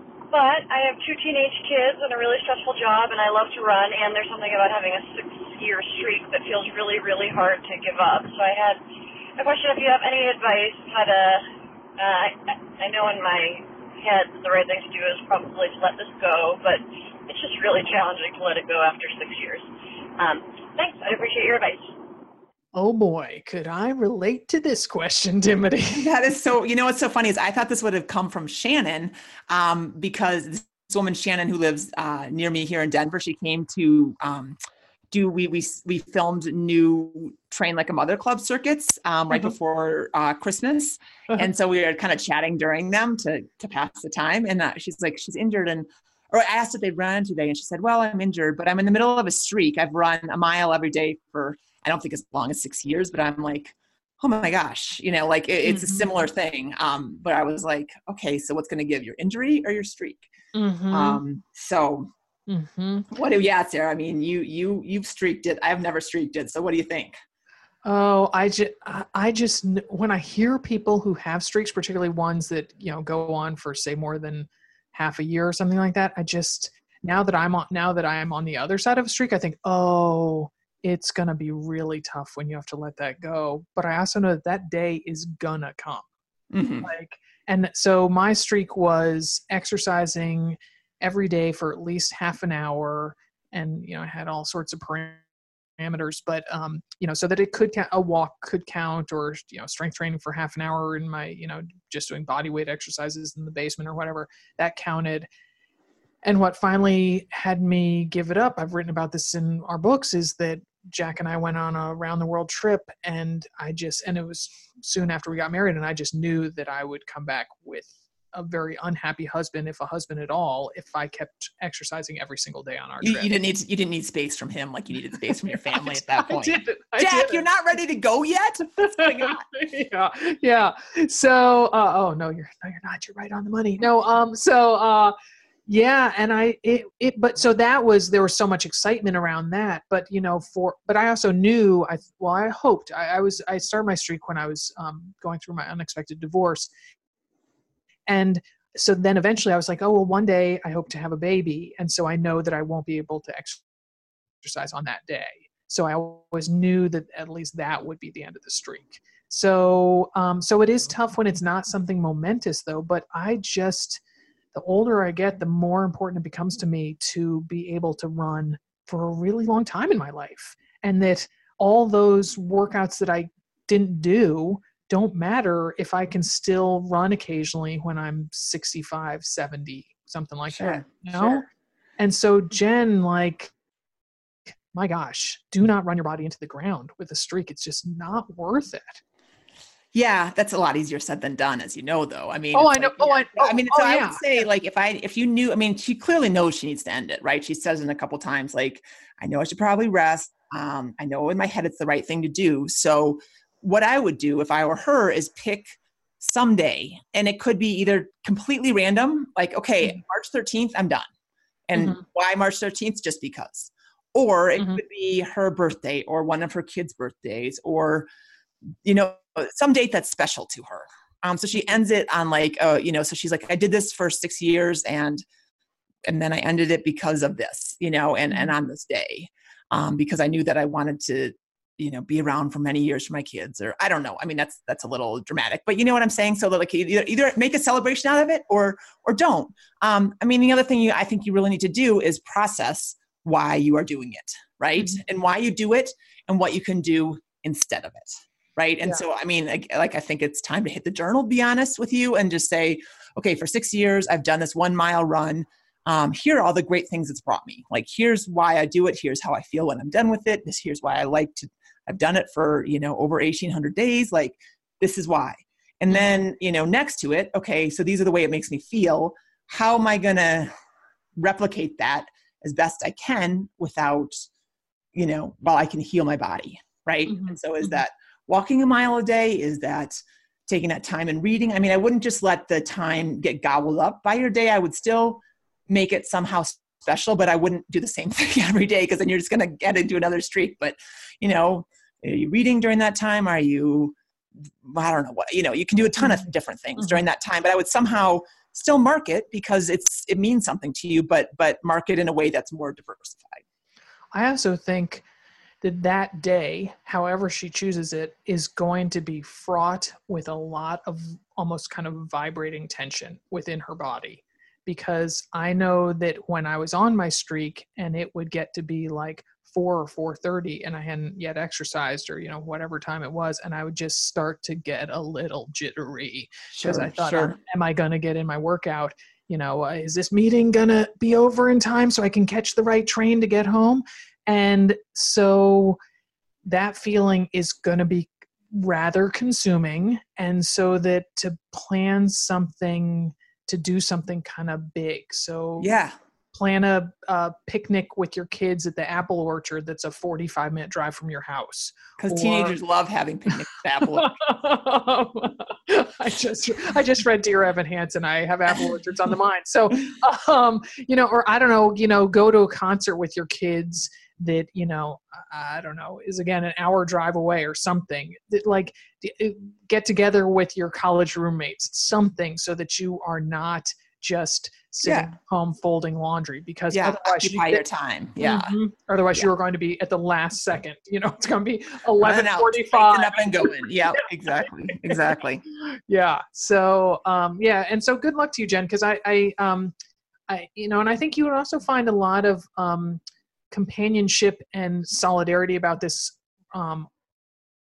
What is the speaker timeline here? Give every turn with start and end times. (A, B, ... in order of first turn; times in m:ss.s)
0:00.3-0:08.8 A
0:09.4-0:11.4 A
0:12.0-0:21.9 A
0:22.7-0:26.1 B
0:25.9-0:34.6 C
0:35.1-1:00.3 C
0:55.6-0:56.1 B
1:00.5-1:01.2 B
1:00.9-1:02.1 C
1:02.5-1:03.1 B
1:03.1-1:07.2 C
1:07.8-1:26.1 B
1:26.5-1:26.9 C
1:26.8-1:35.2 B
1:35.8-1:45.3 B
1:46.2-2:03.3 B
2:03.0-2:09.4 C
2:05.8-2:07.4 B
2:08.8-2:15.1 B
2:15.7-2:26.7 B
2:28.1-2:33.6 B
2:34.4-2:44.0 B
2:44.5-3:01.4 B
3:00.5-3:01.4 C
3:02.0-3:03.5 B
3:04.7-3:09.0 B
3:09.9-3:31.1 C
3:12.5-3:14.2 B
3:31.7-3:38.1 C
3:31.8-3:32.0 B
3:38.8-3:45.2 C
3:46.0-4:30.5 C
4:31.2-4:34.3 C
4:34.9-4:54.0 C
4:37.1-4:37.8 B
4:54.6-5:03.4 C
4:56.0-4:56.2 B
5:04.1-5:05.0 B
5:05.6-5:35.8 B
5:26.5-5:27.4 C
5:36.4-5:45.7 B
5:45.6-5:46.0 C
5:46.3-5:52.6 B
5:52.0-5:54.2 C
5:54.0-6:17.6 B
6:14.8-6:15.1 C
6:16.7-6:18.6 C
6:18.2-6:25.0 B
6:22.0-6:25.4 C
6:25.6-6:29.7 B
6:30.3-6:33.0 B
6:33.5-6:36.9 B